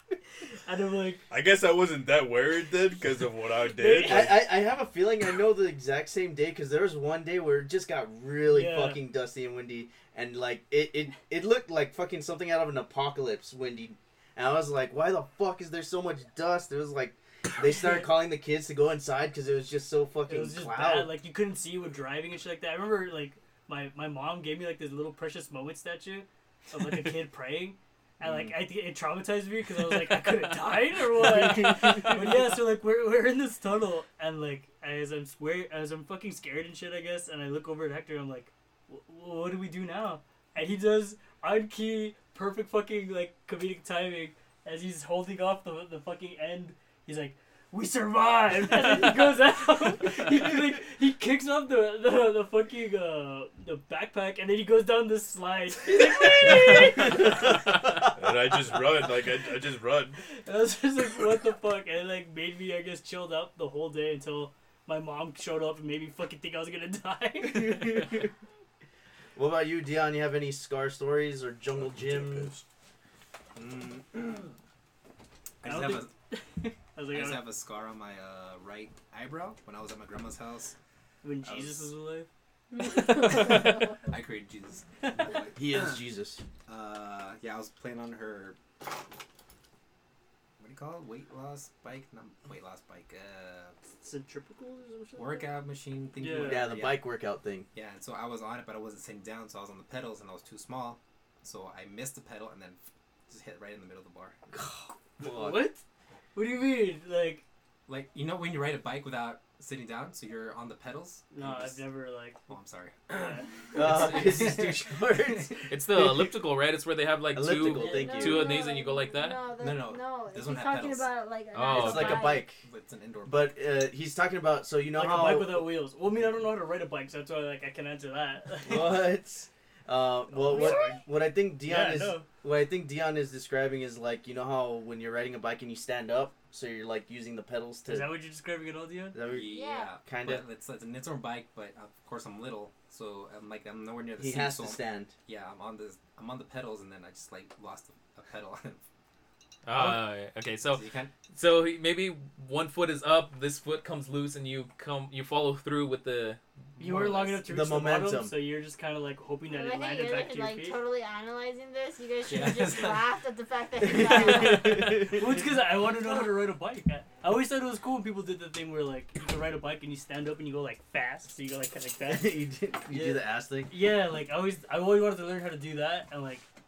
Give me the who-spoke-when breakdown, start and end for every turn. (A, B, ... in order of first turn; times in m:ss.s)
0:00.5-0:01.2 A
0:01.3-0:04.4 B
0:03.8-0:04.3 A
0:03.9-0:21.2 C
0:08.5-0:09.0 A
0:17.7-0:18.1 A
0:20.3-0:57.4 A
0:58.0-1:00.2 B
1:00.4-1:08.1 A
1:07.4-1:08.3 C
1:09.4-1:12.5 C
1:11.8-1:12.6 B
1:13.6-1:14.5 D
1:15.6-1:16.1 D
1:15.6-1:17.4 A
1:17.1-1:20.7 D
1:21.2-1:22.3 A
1:21.4-1:21.9 D
1:23.1-1:26.0 D
1:25.5-1:26.4 C
1:26.7-1:28.6 D
1:30.6-1:33.8 D
1:34.0-1:35.6 A
1:35.2-1:37.0 D
1:36.2-1:36.6 A
1:36.4-1:37.7 C
1:37.7-1:44.4 D
1:44.5-1:45.6 C
1:45.2-1:45.8 A
1:46.3-1:47.4 A
1:47.9-1:51.9 D
1:51.3-1:52.4 A
1:52.5-1:55.4 D
1:53.1-1:53.5 A
1:53.7-1:56.3 C
1:55.7-1:59.4 E
1:57.3-1:58.6 C
1:57.6-2:02.5 F
1:59.5-2:01.1 D
2:01.5-2:02.4 E
2:01.7-2:02.6 C
2:02.3-2:03.5 D
2:03.2-2:05.7 C
2:04.9-2:09.1 A
2:08.6-2:18.1 C
2:10.3-2:11.0 A
2:10.5-2:11.0 F
2:11.6-2:12.2 A
2:17.9-2:19.2 A
2:19.1-2:20.4 C
2:19.2-2:28.8 D
2:19.4-2:19.9 F
2:24.2-2:25.1 C
2:29.6-2:36.4 E
2:30.6-2:31.1 D
2:36.8-2:40.8 A
2:36.8-2:38.3 C
2:39.5-2:45.1 F
2:42.2-2:43.1 D
2:43.8-2:45.1 C
2:44.3-2:56.4 A
2:52.0-2:53.7 C